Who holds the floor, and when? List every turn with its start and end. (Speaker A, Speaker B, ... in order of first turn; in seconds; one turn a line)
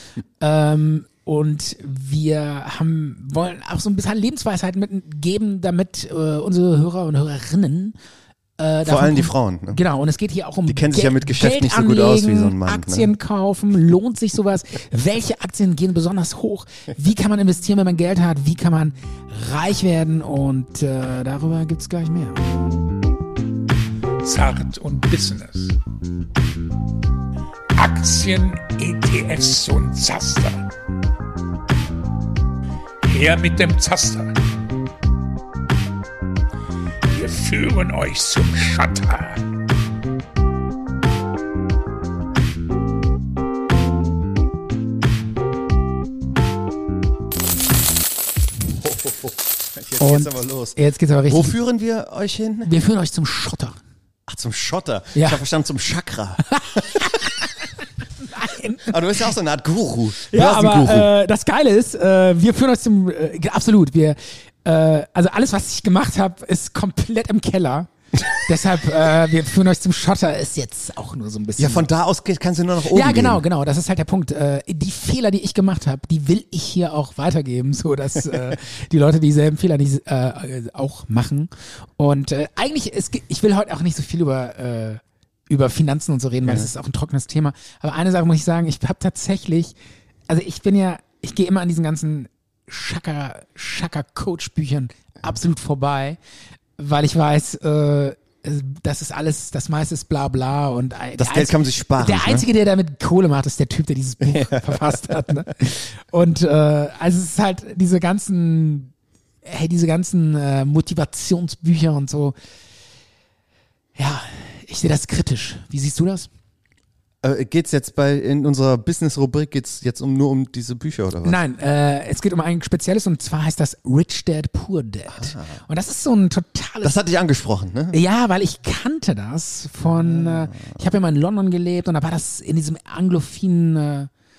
Speaker A: 0.4-8.0
Speaker A: 8.6-22.4
Speaker B: 8.8-9.8
Speaker B: 10.7-13.1
Speaker C: 24.2-25.8
Speaker C: 27.8-30.7
Speaker C: 33.0-34.4
Speaker C: 37.1-39.5
Speaker B: 48.7-52.7
Speaker A: 50.0-51.6
Speaker A: 52.6-53.8
Speaker B: 54.3-56.8
Speaker A: 55.1-55.4
Speaker A: 56.5-57.1
Speaker A: 58.3-59.3
Speaker B: 58.9-61.1
Speaker A: 60.3-71.9
Speaker B: 71.6-73.4
Speaker A: 72.9-89.8
Speaker B: 78.3-78.6
Speaker B: 86.5-86.7
Speaker A: 90.3-96.2
Speaker A: 96.8-108.9
Speaker B: 101.2-102.5
Speaker B: 104.2-105.2
Speaker A: 109.4-112.3
Speaker A: 114.0-116.3
Speaker B: 117.2-121.4
Speaker A: 121.2-127.0
Speaker B: 125.1-125.6
Speaker B: 126.8-128.0
Speaker A: 127.9-134.1
Speaker B: 129.8-130.9